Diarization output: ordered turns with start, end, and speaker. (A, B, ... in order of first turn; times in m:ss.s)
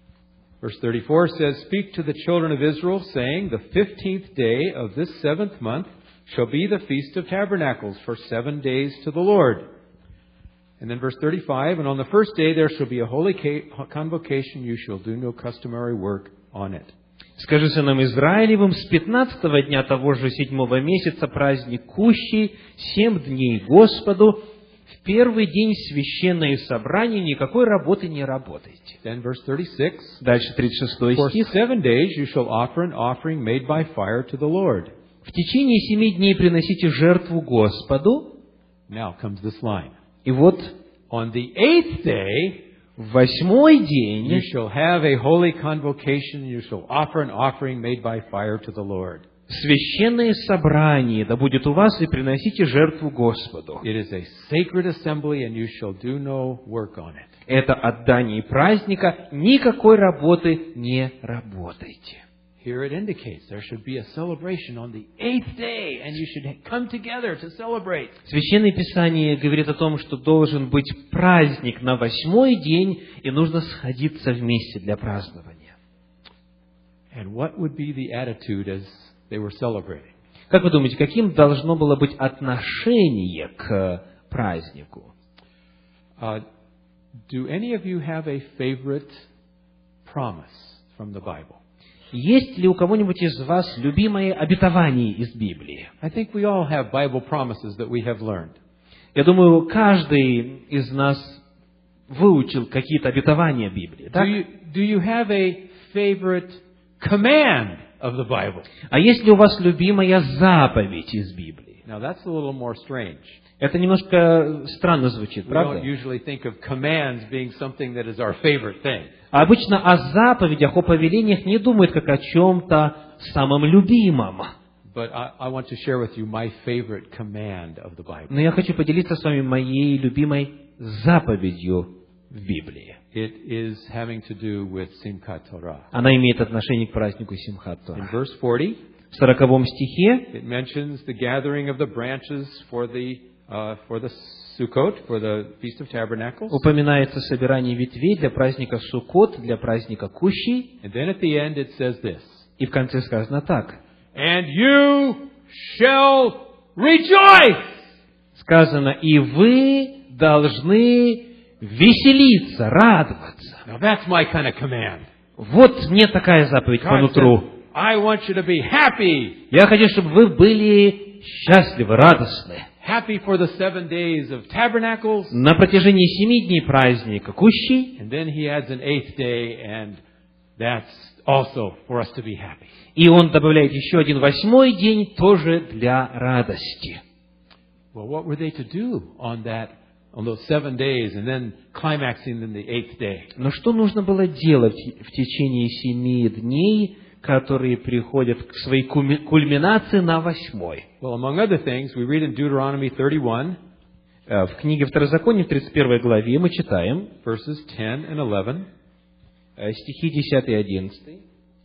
0:00.6-0:09.6 A
0:10.8-0:16.9 A
0:17.4-0:24.4 B
0:25.0-0:29.0 B
0:29.0-0:30.2 A
0:30.2-0:31.5 B
0:31.1-0:34.9 A
0:35.2-0:38.4 B
0:38.9-0:39.9 A
0:40.2-0:40.7 B
0:41.1-0:42.6 A
0:43.0-0:44.4 B
0:44.2-0:49.2 A
0:49.5-0:53.8 B
0:53.8-0:57.3 A
0:57.5-1:02.2 B
1:02.6-1:08.2 A
1:08.3-1:15.7 B
1:17.1-1:20.1 A
1:20.5-1:25.1 B
1:27.3-1:29.2 A
1:30.0-1:31.6 A
1:32.1-1:35.9 B
1:36.0-1:38.6 A
1:39.2-1:41.4 B
1:42.1-1:44.3 B
1:44.1-1:48.7 A
1:48.9-1:51.8 B
1:51.8-1:53.4 A
1:53.6-1:55.9 B
1:55.5-1:59.1 A
1:59.3-2:04.5 B
2:04.9-2:08.4 A
2:08.3-2:13.0 B
2:13.1-2:15.9 A
2:15.9-2:18.1 B
2:18.0-2:18.8 A
2:19.1-2:20.3 B
2:20.3-2:26.6 A
2:26.5-2:30.7 B
2:30.8-2:32.5 A
2:32.6-2:33.8 B
2:34.2-2:37.8 A
2:38.4-2:43.6 B
2:43.6-2:45.0 A
2:45.4-2:47.5 B
2:46.8-2:49.4 A
2:49.5-2:52.7 B
2:52.8-2:55.4 A
2:55.3-2:58.0 B
2:58.0-3:00.0 A
3:00.6-3:02.7 A
3:03.0-3:07.0 B
3:07.9-3:13.3 A
3:13.4-3:20.9 B
3:21.0-3:23.6 A
3:24.3-3:27.1 B
3:27.2-3:28.7 A
3:29.6-3:31.2 B